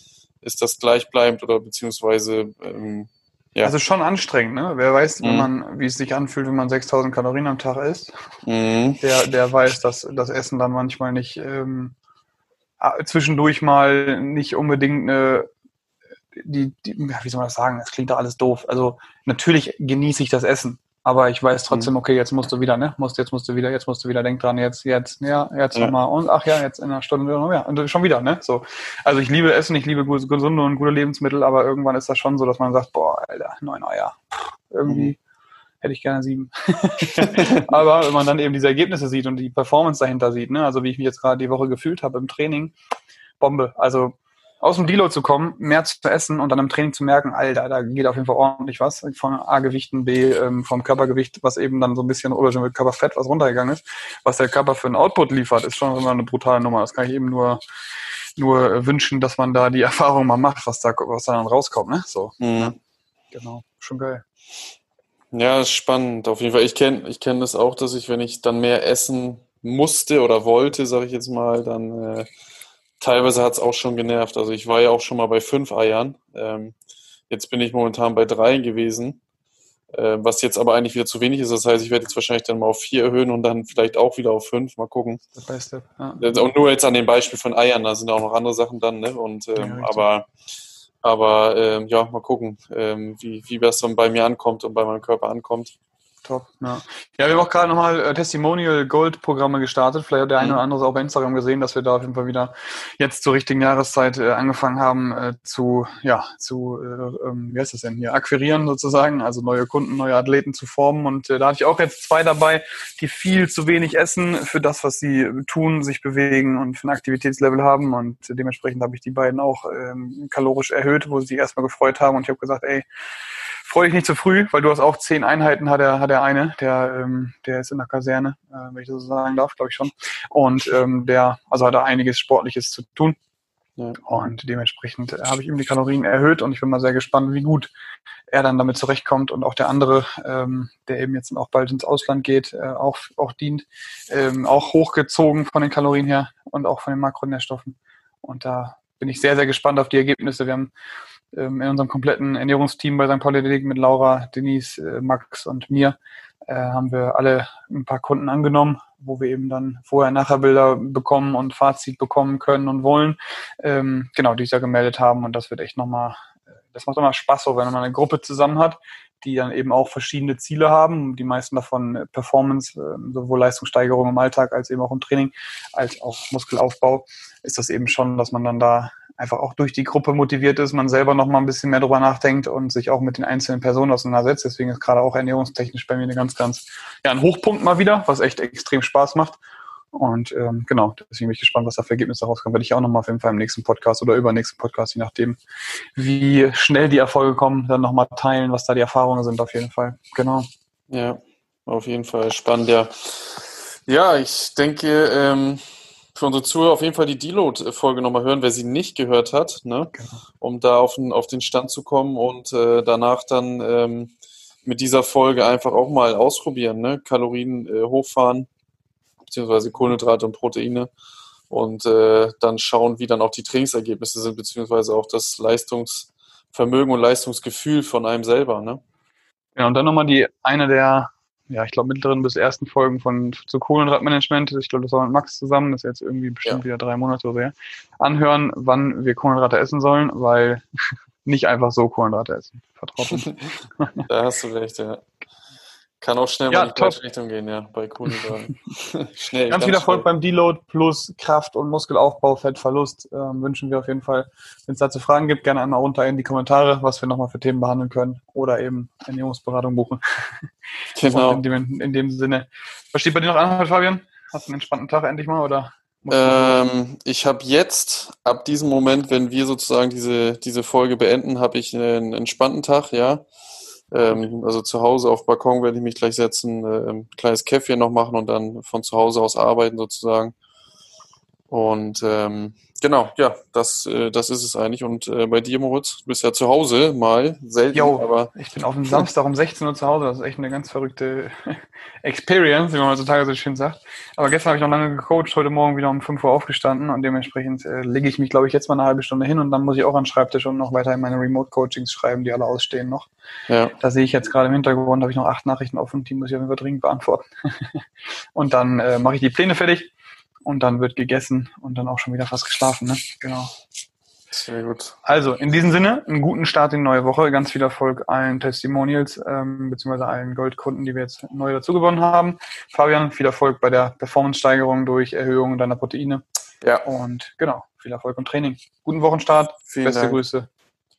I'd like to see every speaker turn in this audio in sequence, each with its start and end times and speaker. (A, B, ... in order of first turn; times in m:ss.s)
0:00.4-0:03.7 A
0:03.6-0:08.1 B
0:05.2-0:05.5 A
0:08.4-0:09.0 A
0:09.0-0:11.9 B
0:12.8-0:15.5 B
0:16.4-0:34.2 B
0:34.7-0:35.2 B
0:34.9-0:35.1 A
0:35.8-0:42.7 B
0:43.4-0:57.6 B
0:58.4-1:02.8 B
1:02.4-1:02.8 A
1:03.3-1:04.2 B
1:05.3-1:12.3 A
1:13.0-1:16.8 A
1:17.3-1:19.2 A
1:19.9-1:25.2 A
1:25.4-1:26.2 B
1:26.2-1:30.3 A
1:29.6-1:30.0 B
1:31.0-1:35.7 A
1:36.2-2:02.8 B
2:03.6-2:13.2 B
2:14.0-2:17.7 B
2:18.3-2:30.7 B
2:31.3-2:36.0 B
2:36.5-2:46.2 B
2:46.7-3:09.4 B
3:09.9-3:15.4 B
3:16.0-3:20.5 B
3:20.9-3:25.6 A
3:26.1-3:34.1 A
3:29.9-3:30.2 B
3:34.6-3:38.5 A
3:39.2-3:40.9 A
3:41.5-3:48.8 A
3:49.6-4:00.6 B
4:01.2-4:04.0 B
4:04.1-4:05.0 A
4:06.0-4:10.0 A
4:06.5-4:07.0 B
4:09.5-4:20.5 B
4:21.0-4:21.4 A
4:21.0-4:26.6 B
4:26.1-4:33.3 A
4:33.9-4:40.3 A
4:41.5-4:48.3 A
4:47.7-5:03.1 B
5:03.5-5:03.7 A
5:03.8-5:07.8 B
5:08.3-5:09.9 B
5:10.4-5:13.5 B
5:14.3-5:14.9 A
5:15.0-5:26.2 B
5:26.8-5:30.5 B
5:29.7-5:30.2 A